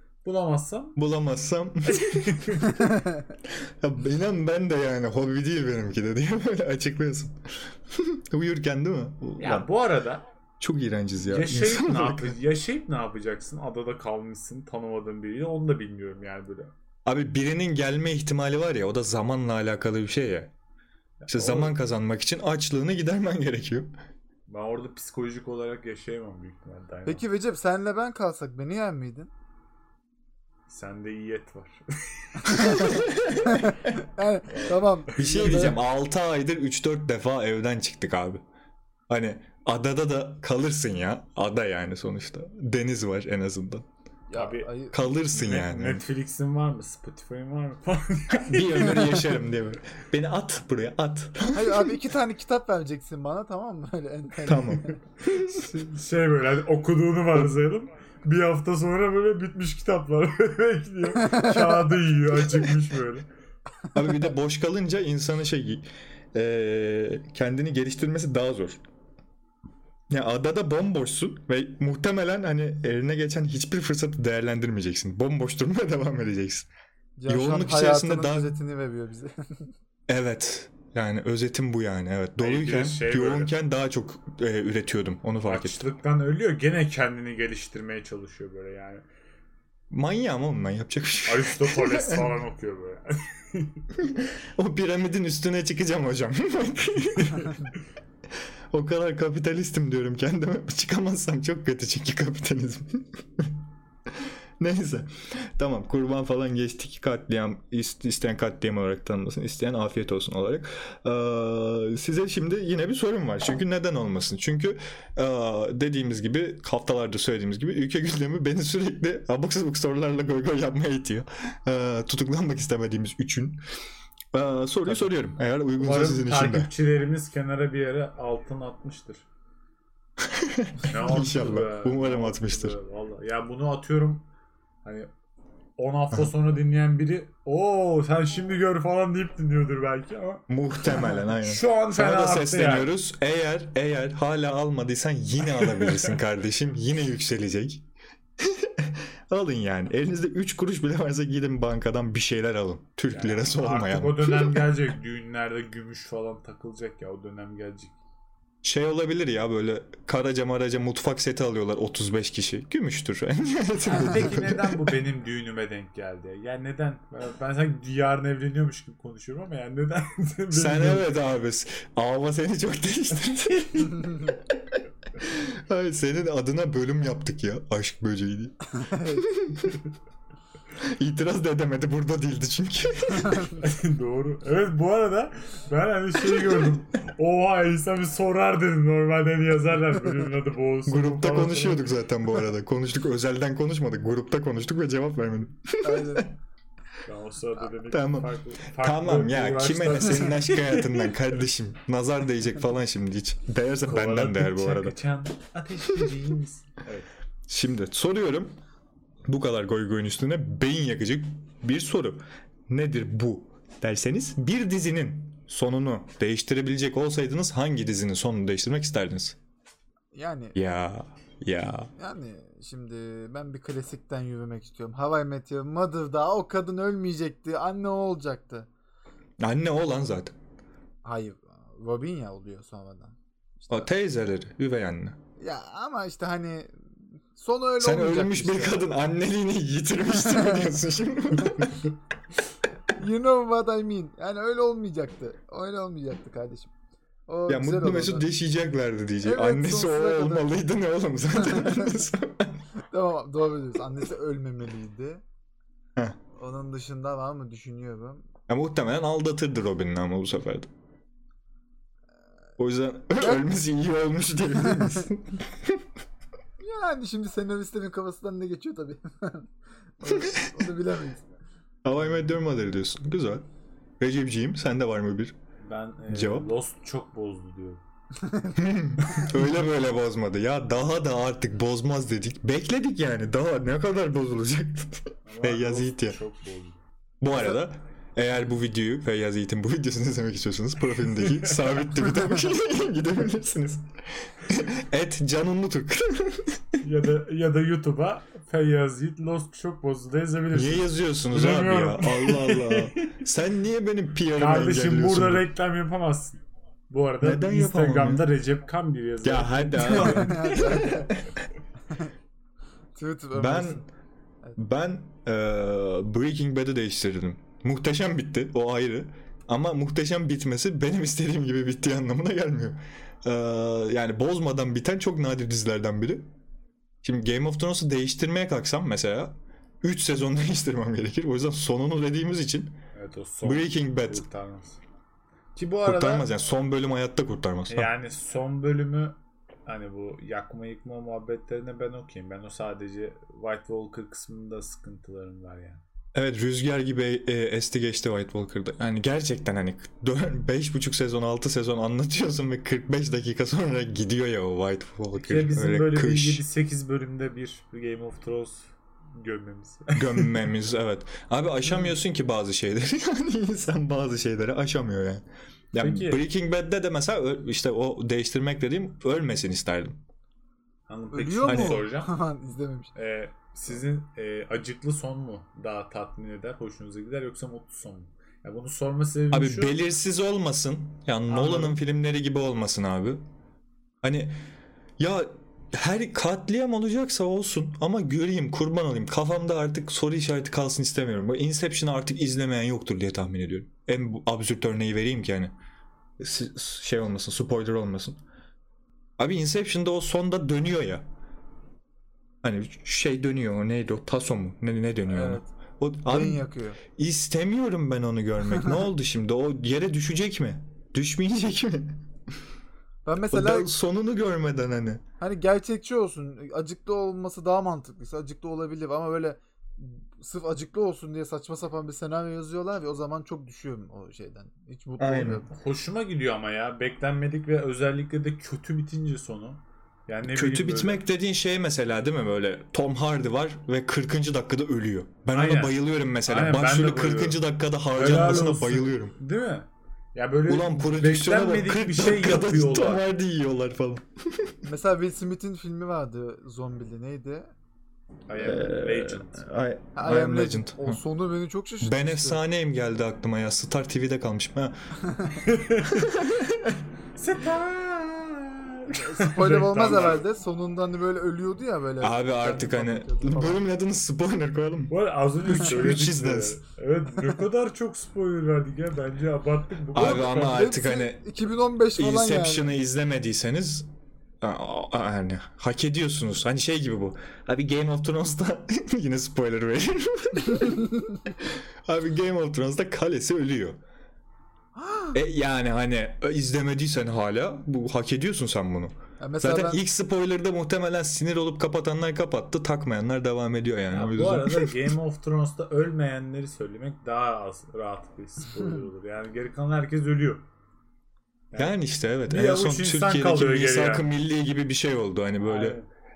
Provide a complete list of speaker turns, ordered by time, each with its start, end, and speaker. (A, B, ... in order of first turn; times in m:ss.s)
0:00.2-0:01.0 A
0:01.0-0:02.6 B
0:01.9-0:02.8 A
0:02.8-0:03.2 C
0:03.4-0:07.4 B
0:07.9-0:09.7 B
0:09.4-0:10.2 A
0:10.6-0:12.4 B
0:11.2-0:16.7 A
0:17.0-0:20.5 B
0:21.2-0:21.8 A
0:21.3-0:23.9 B
0:24.5-0:27.2 A
0:27.1-0:29.3 C
0:30.7-0:32.9 A
0:32.4-0:35.8 C
0:32.7-0:33.6 B
0:34.5-0:35.6 A
0:35.2-0:38.4 B
0:39.1-0:43.8 B
0:44.3-0:45.0 C
0:44.3-0:49.3 A
0:44.9-0:46.0 B
0:48.3-0:51.9 B
0:51.5-0:55.0 C
0:54.4-0:55.7 B
0:55.5-1:03.3 A
1:01.3-1:01.7 C
1:03.9-1:08.8 B
1:10.1-1:16.7 B
1:17.2-1:19.7 C
1:17.3-1:18.5 B
1:20.1-1:25.9 B
1:22.4-1:23.5 A
1:25.4-1:29.0 A
1:29.9-1:32.4 B
1:31.2-1:33.8 A
1:34.0-1:37.7 B
1:38.7-1:43.5 B
1:44.1-2:03.6 B
2:04.3-2:06.7 B
2:04.8-2:05.1 A
2:05.8-2:09.2 A
2:10.2-2:12.8 B
2:10.8-2:14.2 A
2:14.8-2:15.1 A
2:15.8-2:22.9 A
2:20.5-2:27.8 B
2:25.4-2:26.2 A
2:28.4-2:34.7 B
2:33.1-2:38.0 A
2:38.6-2:44.9 B
2:43.8-2:51.1 A
2:50.5-2:54.3 B
2:53.7-2:54.0 A
2:55.2-2:59.8 B
2:58.8-2:59.2 C
3:00.8-3:03.5 B
3:03.6-3:11.9 A
3:10.9-3:16.3 B
3:15.8-3:16.3 C
3:17.0-3:21.3 A
3:17.9-3:25.0 B
3:23.8-3:27.1 A
3:27.5-3:28.6 B
3:29.2-3:39.4 B
3:40.1-3:40.6 C
3:40.5-3:41.9 B
3:42.0-3:48.7 C
3:49.4-3:50.3 B
3:51.0-3:53.9 C
3:53.7-3:55.2 B
3:55.4-3:58.8 C
3:57.8-4:01.8 B
4:02.9-4:06.7 C
4:07.3-4:08.2 C
4:07.5-4:12.6 B
4:09.2-4:10.5 C
4:11.4-4:11.9 C
4:12.9-4:15.2 C
4:16.3-4:18.2 C
4:18.5-4:20.7 B
4:22.6-4:25.9 B
4:26.6-4:31.3 C
4:30.0-4:30.7 B
4:31.8-4:33.4 B
4:34.0-4:35.4 B
4:35.6-4:37.8 A
4:36.1-4:36.5 B
4:38.2-4:39.2 C
4:38.6-4:46.2 B
4:45.2-4:46.8 A
4:47.2-4:56.8 B
4:51.1-4:51.8 A
4:56.8-5:03.2 A
5:00.5-5:05.5 B
5:04.4-5:06.4 A
5:06.9-5:10.8 A
5:07.2-5:08.2 B
5:09.2-5:11.3 B
5:09.9-5:11.1 C
5:13.0-5:13.8 C
5:13.3-5:13.8 B
5:14.6-5:26.3 B
5:27.0-5:32.8 B
5:32.9-5:34.8 A
5:33.4-5:34.2 B
5:35.6-5:36.3 A
5:35.8-5:37.9 B
5:37.7-5:45.8 A
5:46.1-5:56.4 B
5:55.1-6:00.5 A
5:59.9-6:10.0 B
6:05.8-6:06.2 A
6:10.9-6:12.1 A
6:11.1-6:12.9 C
6:11.4-6:11.8 B
6:12.9-6:19.8 A
6:19.3-6:23.2 B
6:21.3-6:21.8 A
6:24.0-6:24.3 B
6:25.0-6:35.5 B
6:36.2-6:38.2 B
6:39.2-6:41.0 B
6:42.4-6:52.0 B
6:45.1-6:45.5 C
6:46.1-6:46.8 C
6:53.0-6:53.7 C
6:53.2-6:55.0 B
6:55.2-7:05.5 C
7:05.0-7:05.4 B
7:05.5-7:11.0 A
7:10.2-7:19.1 B
7:15.3-7:23.0 A
7:20.5-7:24.5 B
7:24.6-7:27.5 C
7:28.3-7:29.4 A
7:28.4-7:31.0 B
7:30.0-7:32.4 C
7:31.8-7:34.8 B
7:35.1-7:35.4 C
7:35.4-7:36.1 A
7:35.9-7:36.8 B
7:37.2-7:40.2 A
7:38.9-7:43.6 C
7:42.0-7:46.6 B
7:44.9-7:50.7 A
7:49.9-7:51.2 B
7:50.0-7:52.7 C
7:52.0-7:53.9 B
7:54.4-8:03.8 B
8:04.7-8:05.2 C
8:05.1-8:14.7 B
8:09.2-8:09.8 C
8:13.9-8:20.4 A
8:21.5-8:21.8 A
8:21.6-8:25.8 B
8:22.3-8:24.1 A
8:25.4-8:25.8 A